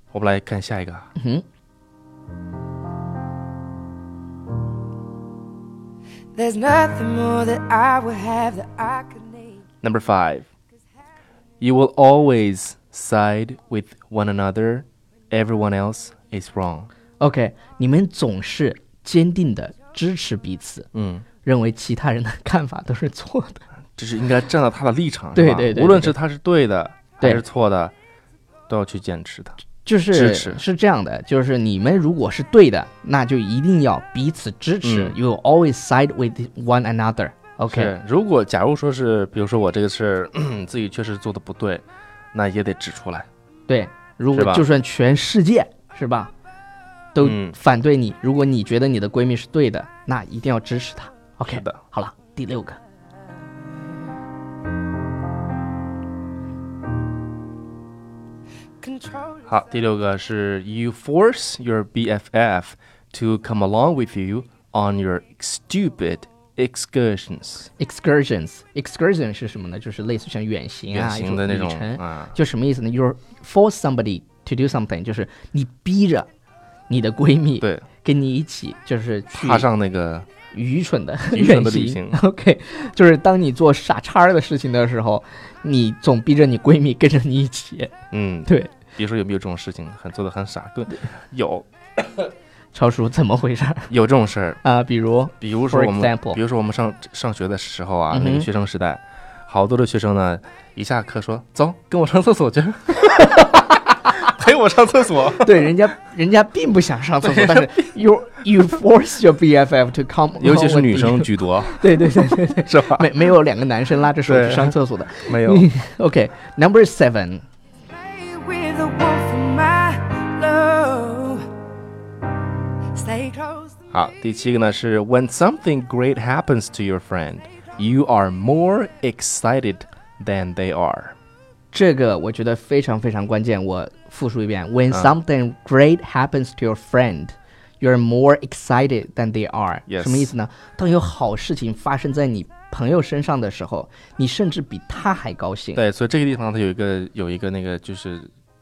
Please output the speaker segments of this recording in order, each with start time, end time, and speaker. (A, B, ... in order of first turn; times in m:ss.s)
0:00.1-0:01.1 A
0:01.2-0:01.4 B
0:06.4-0:09.5 C
0:09.8-0:10.5 A
0:11.6-0:16.9 A
0:17.2-0:20.9 B
0:20.9-0:21.3 A
0:21.4-0:23.6 B
0:24.0-0:27.9 A
0:25.4-0:26.2 B
0:28.7-0:29.6 A
0:29.8-0:37.9 B
0:30.1-0:30.6 A
0:34.8-0:35.2 A
0:37.7-0:43.3 A
0:43.7-0:46.3 B
0:44.3-0:44.7 A
0:47.1-0:52.8 B
0:47.2-0:47.6 A
0:51.5-0:51.8 A
0:58.8-0:59.3 C
0:59.4-1:07.7 A
1:07.8-1:16.3 B
1:10.9-1:12.3 A
1:16.9-1:19.7 B
1:17.6-1:17.9 A
1:19.3-1:20.3 A
1:20.5-1:27.9 B
1:21.3-1:22.2 A
1:28.1-1:31.7 A
1:28.5-1:28.7 B
1:32.7-1:33.9 B
1:33.9-1:34.6 A
1:34.6-1:36.4 B
1:35.4-1:45.8 A
1:38.1-1:38.5 B
1:45.4-1:57.4 B
1:47.2-1:47.9 A
1:50.4-1:53.3 A
1:54.2-1:55.7 A
1:58.0-2:01.5 C
2:03.0-2:03.7 C
2:03.9-2:11.2 A
2:11.7-2:25.8 B
2:19.9-2:20.3 A
2:25.8-2:28.3 A